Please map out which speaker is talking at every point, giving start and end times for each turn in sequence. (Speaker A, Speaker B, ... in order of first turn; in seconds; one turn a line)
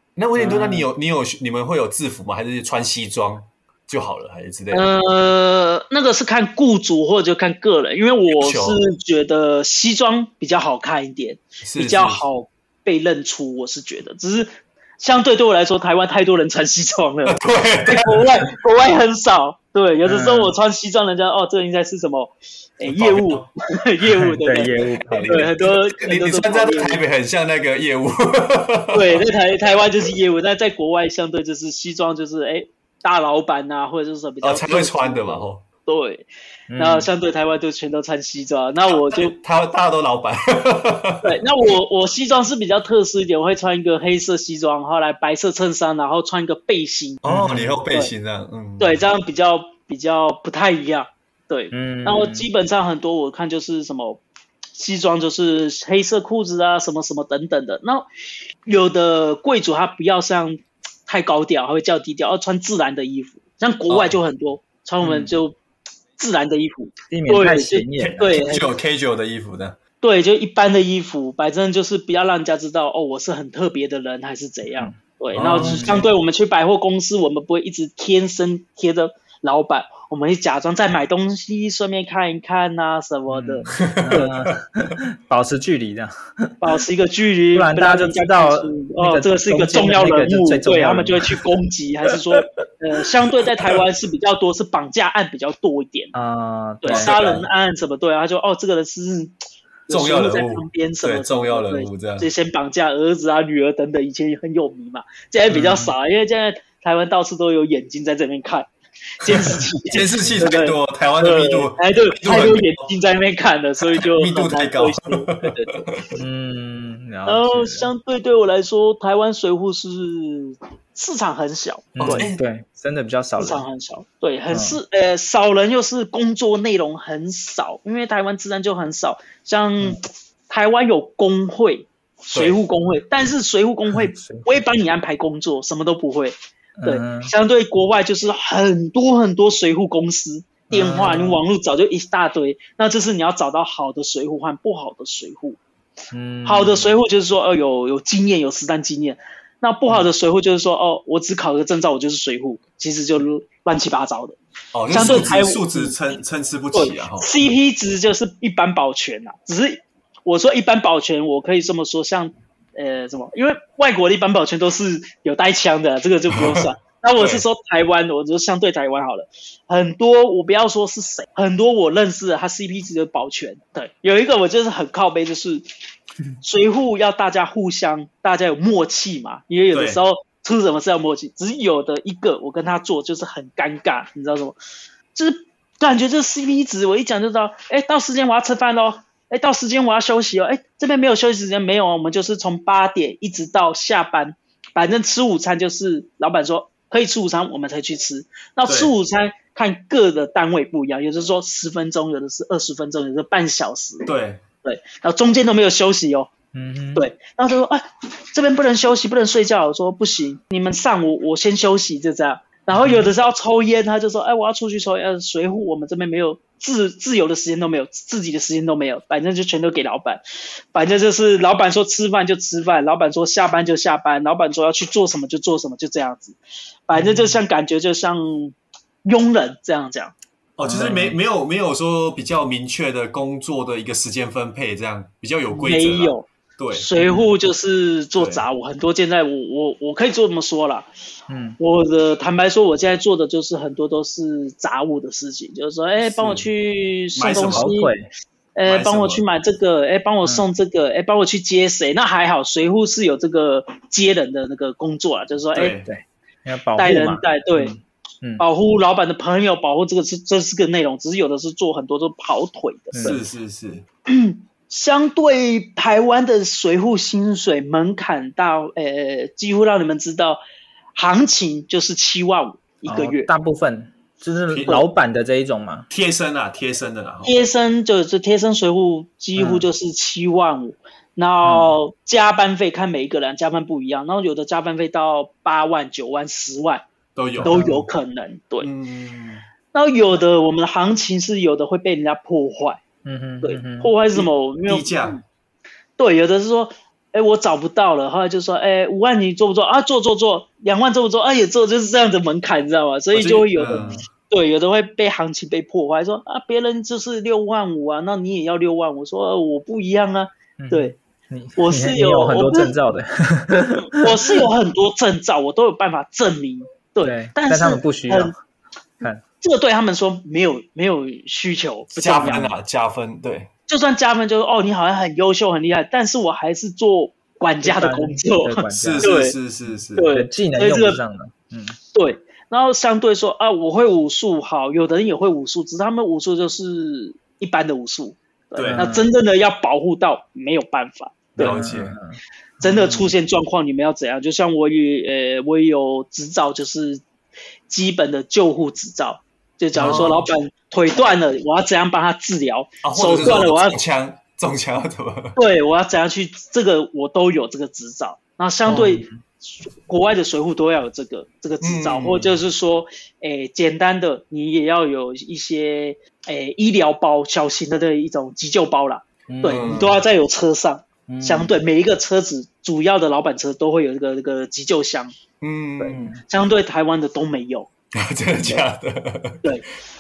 Speaker A: 0.2-4.9
Speaker B: 0.4-0.9
Speaker C: 4.7-27.0
Speaker A: 8.3-8.8
Speaker A: 11.6-12.2
Speaker A: 17.3-18.2
Speaker B: 20.1-20.5
Speaker A: 22.8-23.5
Speaker B: 24.3-25.5
Speaker A: 25.1-29.2
Speaker C: 28.9-39.3
Speaker A: 34.4-35.6
Speaker B: 36.7-37.1
Speaker A: 39.1-41.3
Speaker C: 41.2-47.2
Speaker A: 47.2-49.0
Speaker B: 47.3-47.8
Speaker C: 48.8-54.2
Speaker B: 51.7-52.5
Speaker C: 54.8-58.1
Speaker C: 58.7-65.6
Speaker A: 63.9-64.2
Speaker B: 65.0-65.3
Speaker C: 66.2-68.7
Speaker B: 67.1-68.4
Speaker A: 68.0-69.8
Speaker C: 70.0-84.3
Speaker A: 75.3-76.1
Speaker B: 75.5-76.0
Speaker B: 83.3-86.5
Speaker A: 83.7-84.4
Speaker C: 86.6-96.1
Speaker B: 87.5-91.4
Speaker B: 96.1-97.4
Speaker C: 96.8-99.3
Speaker A: 96.9-97.4
Speaker C: 99.9-108.7
Speaker A: 99.9-102.3
Speaker B: 105.5-105.9
Speaker C: 109.2-115.8
Speaker A: 109.3-112.9
Speaker A: 113.9-116.2
Speaker B: 116.2-117.9
Speaker C: 117.3-122.2
Speaker B: 121.9-123.6
Speaker A: 122.0-122.4
Speaker C: 123.4-145.6
Speaker B: 124.5-124.8
Speaker B: 133.9-134.6
Speaker B: 136.8-137.3
Speaker B: 140.7-141.4
Speaker B: 146.1-146.9
Speaker C: 146.4-154.4
Speaker A: 154.7-157.3
Speaker C: 154.9-156.0
Speaker C: 156.7-175.7
Speaker A: 166.3-166.6
Speaker A: 167.2-167.4
Speaker C: 176.4-184.6
Speaker A: 179.7-180.0
Speaker C: 185.2-204.1
Speaker A: 198.7-198.9
Speaker A: 204.1-204.4
Speaker C: 204.6-206.3
Speaker B: 206.5-207.1
Speaker C: 206.9-220.2
Speaker B: 212.7-213.1
Speaker C: 220.7-230.1
Speaker B: 226.9-227.4
Speaker A: 230.6-236.9
Speaker B: 230.7-231.2
Speaker C: 235.5-240.9
Speaker B: 237.0-237.2
Speaker A: 238.2-238.4
Speaker B: 241.3-241.6
Speaker C: 241.6-247.9
Speaker A: 246.0-246.5
Speaker A: 247.2-247.7
Speaker B: 247.5-248.1
Speaker C: 248.6-255.8
Speaker A: 248.7-249.2
Speaker A: 255.5-255.9
Speaker B: 255.9-258.4
Speaker C: 256.8-257.8
Speaker C: 258.4-263.2
Speaker B: 262.9-263.2
Speaker A: 263.0-263.8
Speaker C: 264.1-270.4
Speaker C: 270.9-273.3
Speaker B: 272.9-275.9
Speaker A: 274.5-274.8
Speaker A: 275.9-277.3
Speaker C: 277.2-286.9
Speaker B: 279.4-279.7
Speaker B: 281.4-281.8
Speaker A: 287.2-287.6
Speaker B: 287.4-287.9
Speaker C: 287.4-288.7
Speaker A: 288.6-289.4
Speaker C: 289.7-292.8
Speaker B: 293.0-293.9
Speaker C: 293.4-295.2
Speaker A: 294.2-295.2
Speaker C: 296.0-311.0
Speaker A: 303.1-304.0
Speaker B: 303.6-304.1
Speaker B: 310.6-314.4
Speaker C: 311.6-312.7
Speaker C: 313.9-318.3
Speaker B: 317.0-318.3
Speaker C: 319.4-322.5
Speaker A: 321.9-323.5
Speaker C: 323.7-329.4
Speaker B: 327.6-329.1
Speaker A: 328.8-330.1
Speaker C: 330.0-331.0
Speaker B: 330.1-331.8
Speaker C: 331.9-341.6
Speaker A: 338.6-338.9
Speaker B: 338.7-339.1
Speaker B: 341.4-343.1
Speaker A: 341.4-342.0
Speaker C: 342.6-347.0
Speaker C: 347.7-353.8
Speaker A: 349.8-350.3
Speaker B: 349.8-350.1
Speaker A: 352.8-355.4
Speaker C: 355.4-375.1
Speaker B: 358.7-359.2
Speaker A: 361.6-362.4
Speaker B: 369.3-369.9
Speaker A: 369.4-370.0
Speaker B: 371.1-371.6
Speaker A: 375.4-376.1
Speaker B: 375.8-376.2
Speaker C: 376.3-377.7
Speaker A: 378.0-379.4